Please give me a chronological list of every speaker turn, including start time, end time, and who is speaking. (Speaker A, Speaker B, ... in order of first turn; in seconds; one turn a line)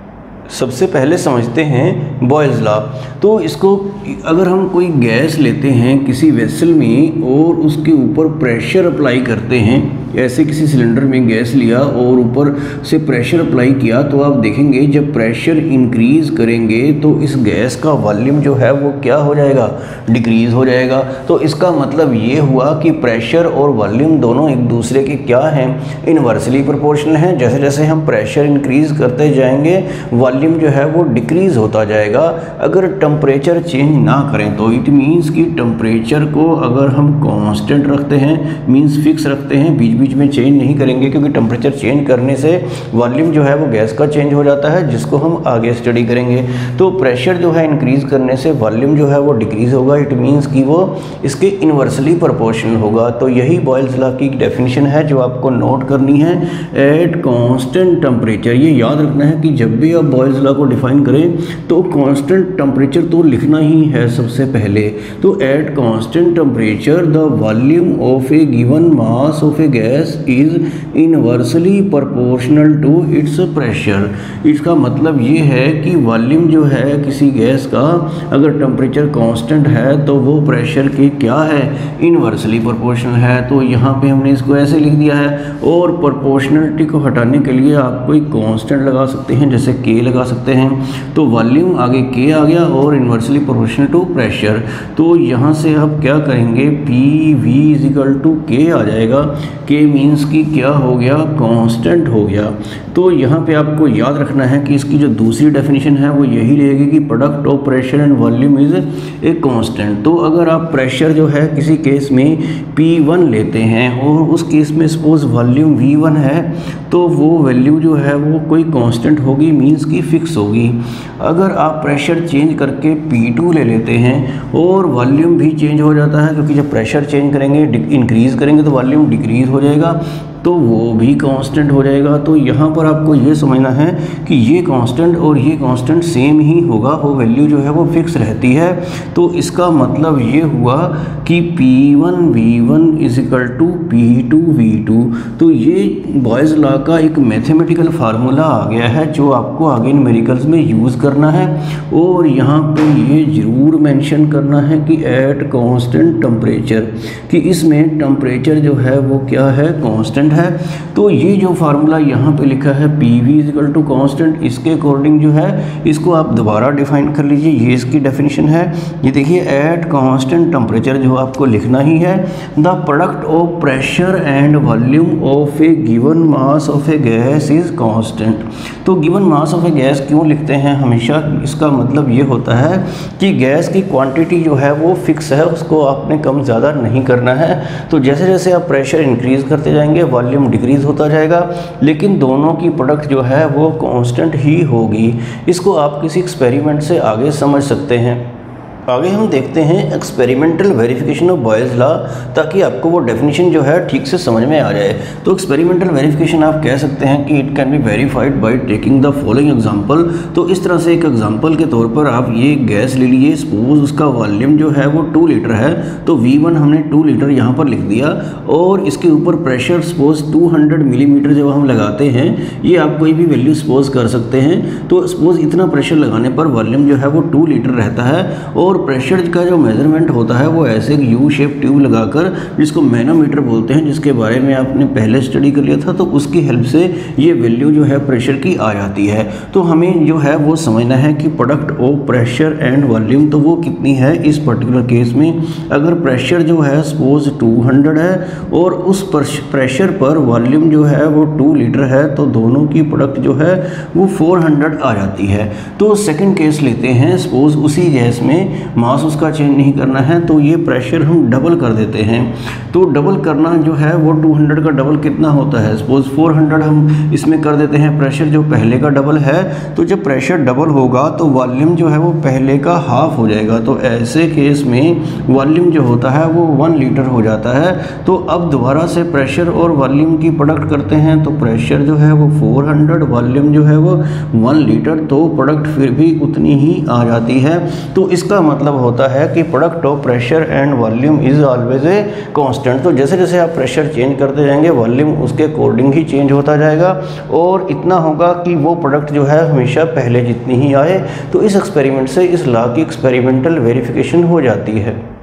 Speaker A: 0.5-198.3
Speaker A: 198.9-305.0